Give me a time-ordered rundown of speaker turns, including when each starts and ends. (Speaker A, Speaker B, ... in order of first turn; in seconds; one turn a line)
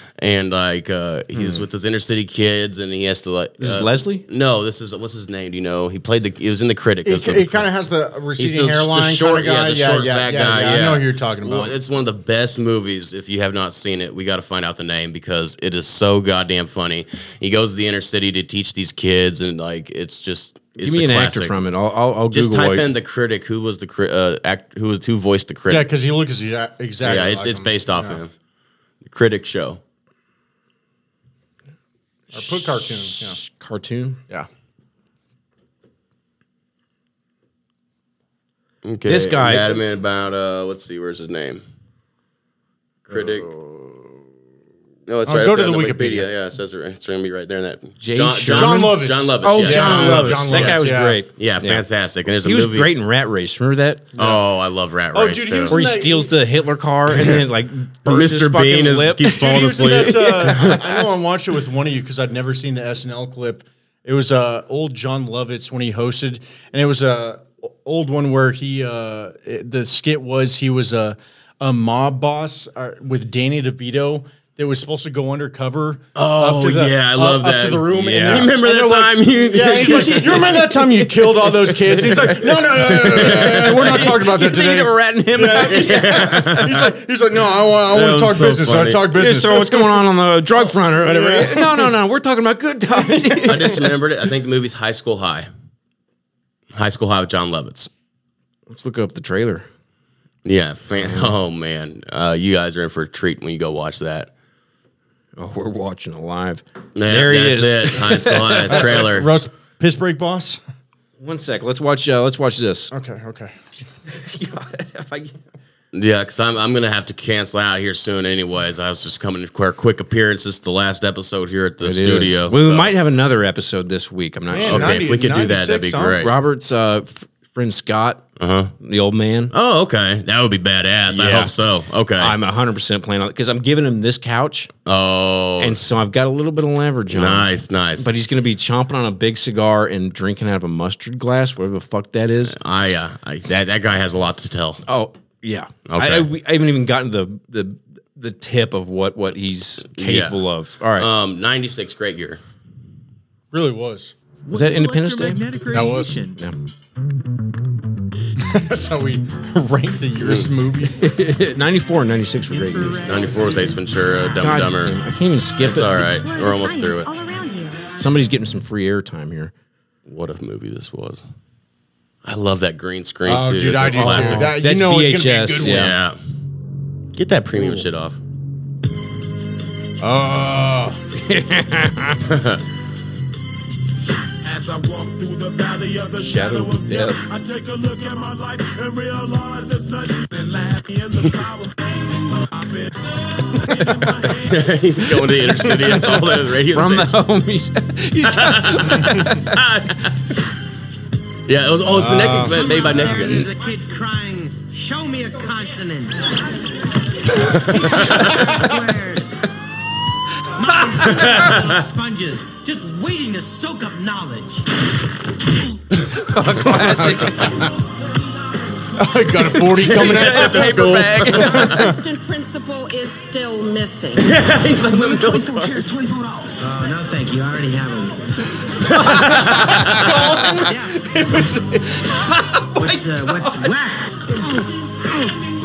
Speaker A: 0.2-7.7
Speaker B: 1.4-1.6
Speaker B: 3.6-4.2
Speaker C: 7.0-11.8
Speaker A: 8.4-21.6
Speaker B: 20.8-22.9
Speaker A: 22.3-25.9
Speaker C: 25.7-28.2
Speaker A: 27.0-28.3
Speaker A: 29.0-29.8
Speaker C: 32.3-33.4
Speaker B: 32.8-34.2
Speaker A: 38.8-41.6
Speaker B: 39.1-39.8
Speaker A: 43.1-43.6
Speaker B: 43.1-43.8
Speaker A: 45.1-52.9
Speaker C: 45.3-46.3
Speaker B: 48.0-51.9
Speaker C: 48.5-51.2
Speaker B: 52.4-54.1
Speaker C: 54.2-54.4
Speaker A: 54.2-55.8
Speaker C: 55.1-56.3
Speaker B: 55.7-61.0
Speaker A: 58.1-60.7
Speaker C: 59.2-90.1
Speaker A: 76.2-80.4
Speaker B: 78.0-78.5
Speaker B: 79.7-86.2
Speaker A: 82.9-84.0
Speaker A: 85.6-86.9
Speaker A: 87.9-89.1
Speaker B: 89.1-94.0
Speaker C: 90.9-91.9
Speaker A: 93.4-95.5
Speaker A: 96.7-97.9
Speaker B: 98.7-99.7
Speaker A: 100.5-104.3
Speaker B: 101.0-101.3
Speaker B: 105.4-109.1
Speaker A: 107.0-109.3
Speaker C: 108.7-110.6
Speaker B: 111.2-112.9
Speaker C: 112.9-113.5
Speaker B: 114.1-115.4
Speaker A: 115.9-123.0
Speaker B: 121.8-125.1
Speaker C: 124.5-126.2
Speaker A: 124.7-126.3
Speaker B: 126.2-128.3
Speaker A: 128.4-128.7
Speaker B: 128.8-129.5
Speaker A: 129.5-132.3
Speaker B: 131.1-131.5
Speaker B: 132.2-134.7
Speaker A: 134.9-135.8
Speaker B: 135.6-142.6
Speaker A: 137.1-138.1
Speaker A: 142.5-144.8
Speaker B: 144.9-151.1
Speaker A: 145.9-146.3
Speaker A: 150.0-150.4
Speaker A: 151.0-152.4
Speaker C: 153.5-154.2
Speaker D: 154.5-156.4
Speaker B: 154.5-155.5
Speaker C: 155.7-156.2
Speaker C: 158.4-161.0
Speaker A: 160.2-160.5
Speaker B: 161.0-163.3
Speaker D: 162.5-163.8
Speaker A: 163.1-165.0
Speaker B: 164.4-166.2
Speaker A: 165.6-167.1
Speaker E: 166.2-167.8
Speaker B: 168.0-169.5
Speaker A: 170.1-171.2
Speaker A: 172.2-174.6
Speaker C: 173.3-175.9
Speaker B: 173.9-175.9
Speaker A: 175.6-176.2
Speaker A: 177.2-178.2
Speaker B: 177.6-177.8
Speaker C: 180.0-181.0
Speaker B: 181.1-182.3
Speaker A: 182.3-182.6
Speaker F: 184.4-194.8
Speaker B: 186.2-187.2
Speaker B: 193.7-194.3
Speaker A: 194.5-197.2
Speaker B: 195.0-199.6
Speaker A: 198.2-200.2
Speaker A: 201.5-203.5
Speaker C: 201.9-202.6
Speaker D: 202.4-206.4
Speaker D: 207.4-209.5
Speaker A: 207.5-208.5
Speaker B: 208.2-208.6
Speaker D: 210.5-214.7
Speaker B: 210.6-211.5
Speaker A: 211.1-211.9
Speaker B: 216.3-217.7
Speaker C: 216.7-217.7
Speaker C: 219.0-222.0
Speaker B: 219.3-221.8
Speaker A: 219.9-221.9
Speaker E: 221.7-224.3
Speaker A: 224.2-225.8
Speaker D: 224.9-228.3
Speaker A: 228.9-230.2
Speaker B: 228.9-230.6
Speaker D: 229.8-231.4
Speaker C: 229.9-231.5
Speaker B: 231.5-233.7
Speaker D: 232.7-234.3